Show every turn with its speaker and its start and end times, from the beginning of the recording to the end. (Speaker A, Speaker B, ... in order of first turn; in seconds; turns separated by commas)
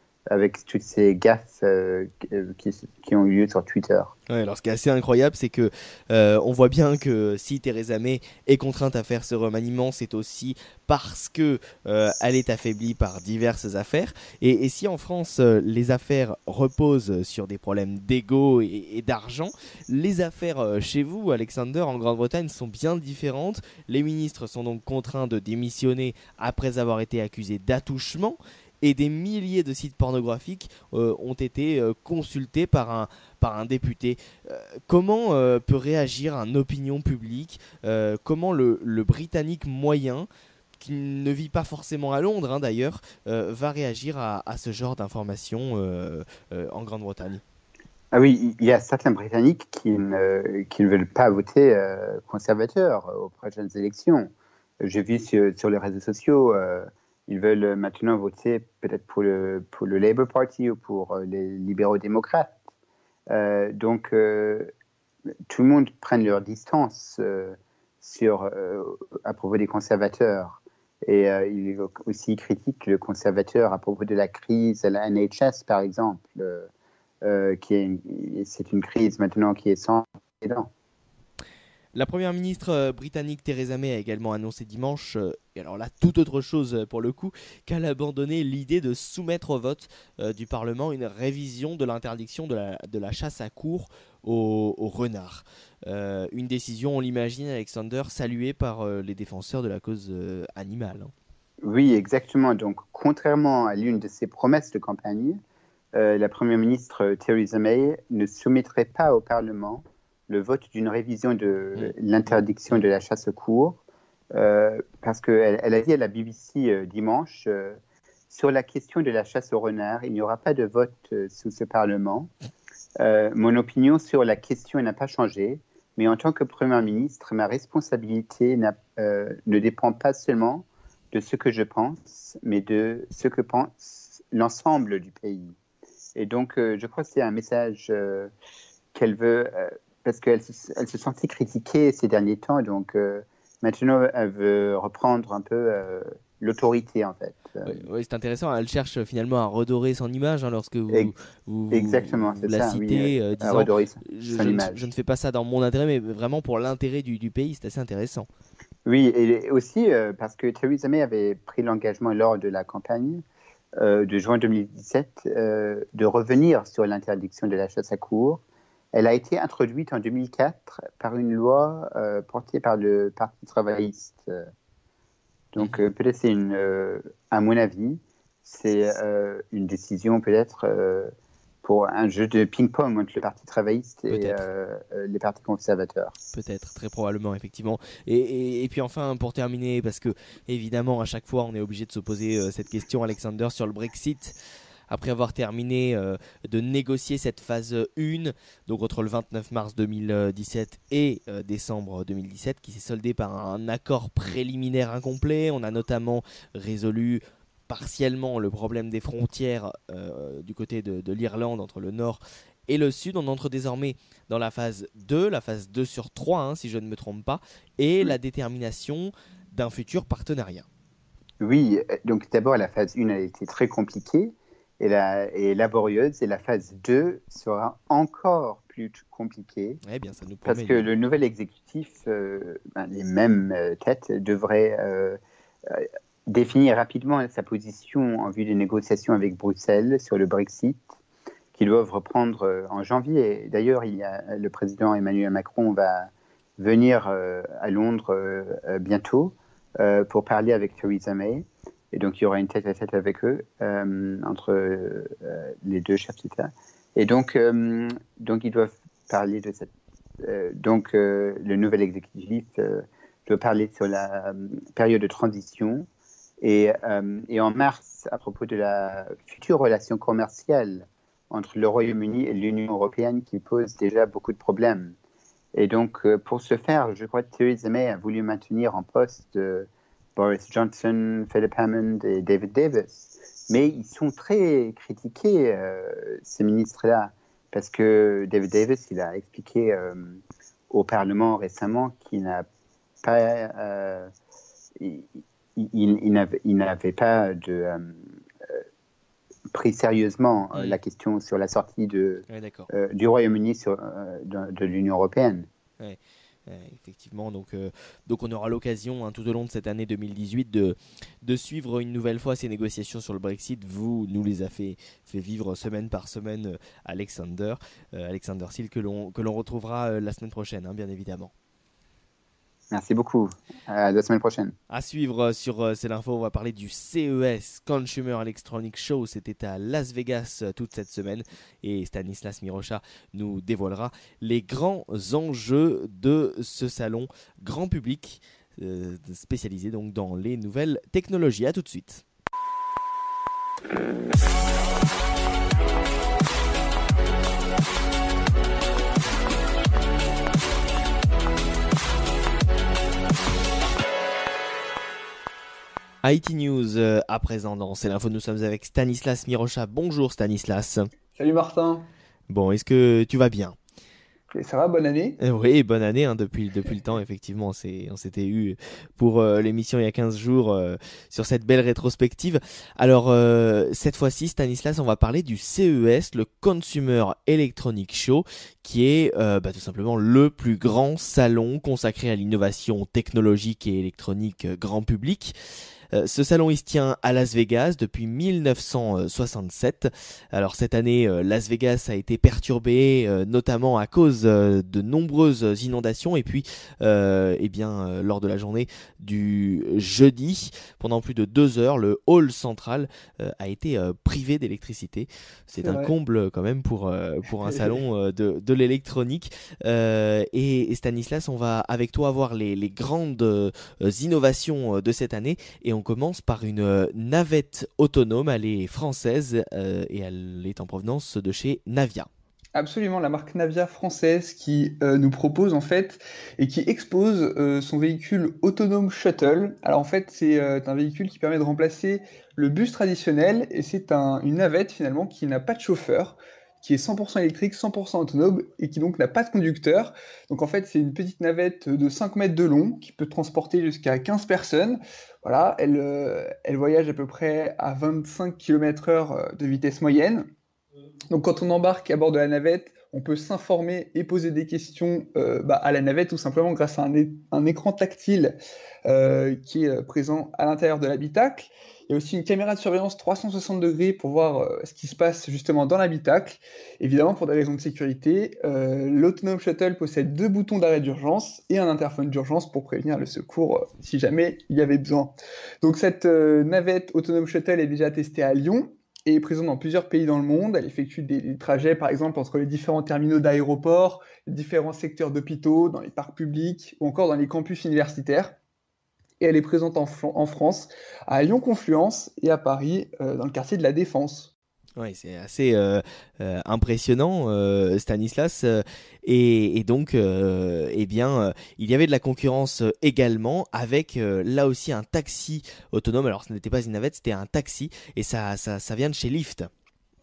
Speaker A: 0.3-4.1, Speaker B: 4.3-40.3, Speaker B: 40.8-47.4, Speaker A: 48.1-62.6, Speaker A: 63.3-64.7, Speaker A: 65.5-76.7, Speaker A: 77.2-80.7, Speaker B: 81.9-101.1, Speaker A: 101.6-105.4, Speaker A: 105.9-113.8, Speaker A: 114.3-117.8, Speaker A: 118.3-122.3, Speaker A: 123.0-135.5, Speaker A: 136.2-138.3, Speaker A: 138.9-147.8, Speaker B: 147.7-158.3, Speaker A: 151.7-154.9, Speaker A: 158.8-163.2, Speaker A: 163.8-168.4, Speaker A: 168.9-174.5, Speaker A: 175.5-181.1, Speaker A: 181.6-186.1, Speaker B: 184.1-184.4, Speaker B: 186.3-194.3, Speaker B: 194.9-220.7, Speaker A: 221.4-229.8, Speaker B: 229.8-230.9, Speaker A: 230.4-240.9, Speaker A: 241.5-259.7, Speaker A: 260.2-265.9, Speaker A: 266.4-274.9, Speaker A: 275.5-290.2, Speaker A: 290.7-292.5, Speaker A: 293.0-294.1, Speaker A: 294.8-298.6, Speaker A: 299.5-305.5, Speaker B: 302.3-302.7, Speaker B: 305.8-321.3, Speaker A: 322.7-324.5, Speaker B: 324.7-342.0, Speaker B: 356.0-360.9, Speaker C: 361.1-361.9, Speaker B: 362.3-363.6, Speaker C: 364.3-365.2, Speaker B: 365.2-385.3, Speaker B: 385.9-422.1, Speaker C: 405.6-405.9, Speaker C: 407.4-407.8, Speaker C: 422.5-450.3, Speaker C: 451.1-488.3, Speaker C: 489.2-494.3, Speaker B: 494.8-509.5